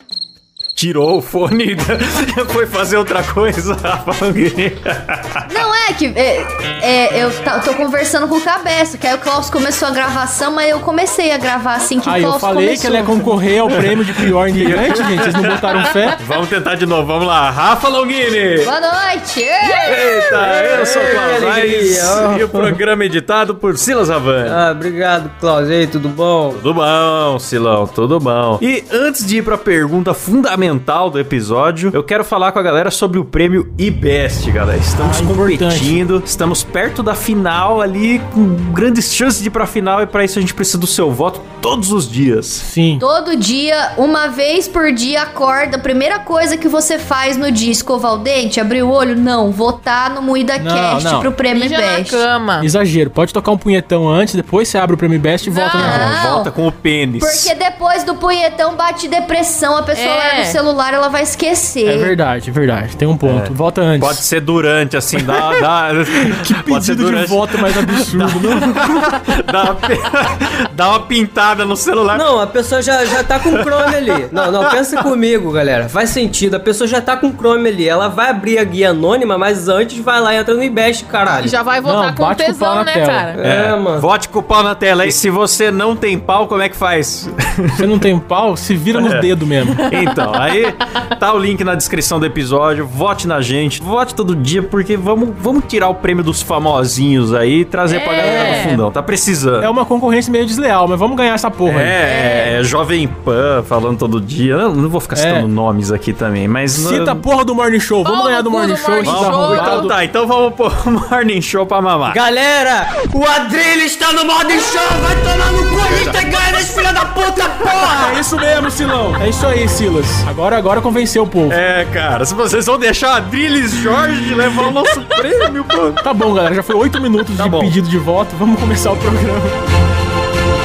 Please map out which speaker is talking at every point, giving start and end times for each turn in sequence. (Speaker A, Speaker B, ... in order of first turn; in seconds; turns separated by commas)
Speaker A: 0.8-5.4, Speaker B: 5.5-13.2, Speaker C: 12.0-16.2, Speaker A: 13.9-18.7, Speaker B: 18.6-20.3, Speaker D: 19.8-22.8, Speaker A: 19.8-24.6, Speaker D: 24.4-26.6, Speaker A: 26.5-42.6, Speaker C: 35.0-36.0, Speaker C: 42.6-43.0, Speaker B: 43.0-52.2, Speaker C: 50.6-51.3, Speaker E: 51.5-52.7, Speaker C: 52.6-56.1, Speaker E: 55.4-56.0, Speaker B: 55.8-56.5, Speaker A: 55.8-57.5, Speaker B: 57.2-62.1, Speaker E: 59.9-60.6, Speaker C: 61.9-64.2, Speaker A: 63.2-72.3, Speaker C: 66.2-69.0, Speaker D: 72.1-81.5, Speaker A: 73.3-74.0, Speaker A: 74.7-75.0, Speaker E: 81.4-83.4, Speaker C: 81.8-83.3, Speaker D: 83.3-84.0, Speaker A: 83.4-87.9, Speaker C: 87.8-89.8, Speaker A: 88.9-89.3, Speaker A: 89.8-99.7, Speaker E: 97.9-98.8, Speaker C: 98.2-98.8, Speaker C: 99.6-102.0, Speaker A: 101.7-107.2, Speaker E: 102.0-102.5, Speaker C: 105.1-105.5, Speaker C: 106.7-109.9, Speaker E: 108.0-109.9, Speaker A: 109.0-112.2, Speaker D: 112.1-119.2, Speaker C: 119.2-121.6, Speaker A: 121.5-126.0, Speaker C: 126.0-129.6, Speaker A: 127.4-127.8